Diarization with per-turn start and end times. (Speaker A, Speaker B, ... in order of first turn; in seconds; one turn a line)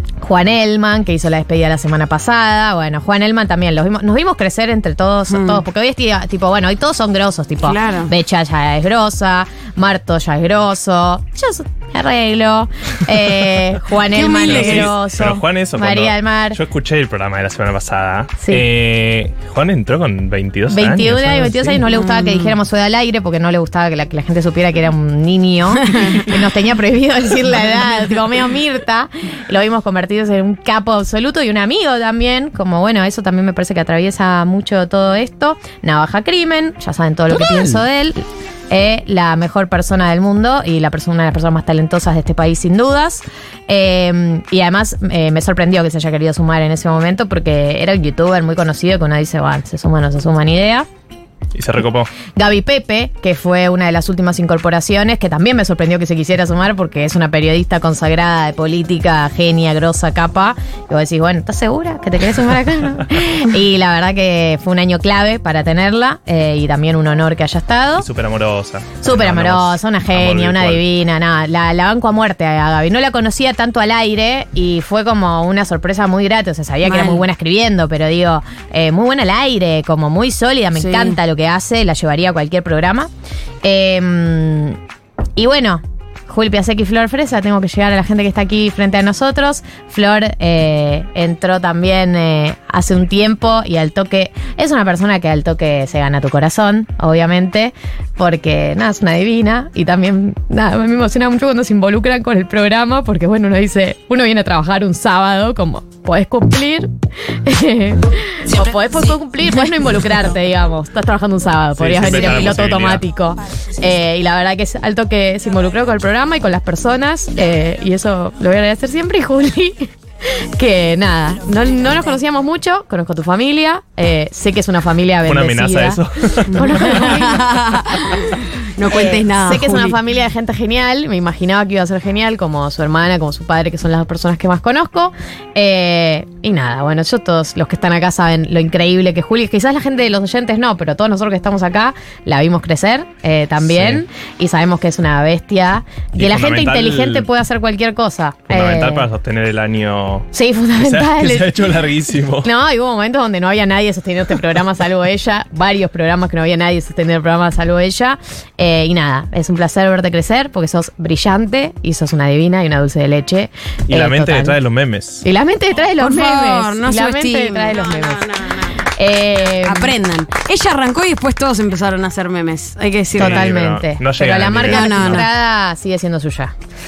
Speaker A: 0.2-16.6
Speaker B: 5.3-5.6
Speaker B: 7.6-8.1
Speaker B: 14.1-14.9
Speaker C: 14.4-21.8
Speaker A: 18.4-18.6
Speaker A: 20.7-50.9
Speaker B: 22.0-22.5
Speaker C: 51.5-52.1
Speaker A: 52.4-68.1
Speaker C: 68.0-70.8
Speaker A: 69.0-83.1
Speaker B: 76.8-77.2
Speaker B: 80.8-81.2
Speaker A: 83.6-84.8
Speaker A: 85.4-106.9
Speaker A: 107.5-119.9
Speaker C: 111.8-113.0
Speaker A: 120.6-127.4
Speaker C: 125.3-127.1
Speaker B: 126.6-129.9
Speaker A: 128.9-149.1
Speaker C: 143.6-144.0
Speaker C: 146.2-147.3
Speaker C: 148.5-150.3
Speaker A: 150.3-151.6
Speaker C: 150.8-152.5
Speaker A: 152.4-164.6
Speaker C: 163.9-165.2
Speaker A: 165.2-169.9
Speaker B: 166.0-168.8
Speaker B: 169.6-173.5
Speaker A: 173.2-176.5
Speaker C: 173.2-175.3
Speaker B: 174.6-175.3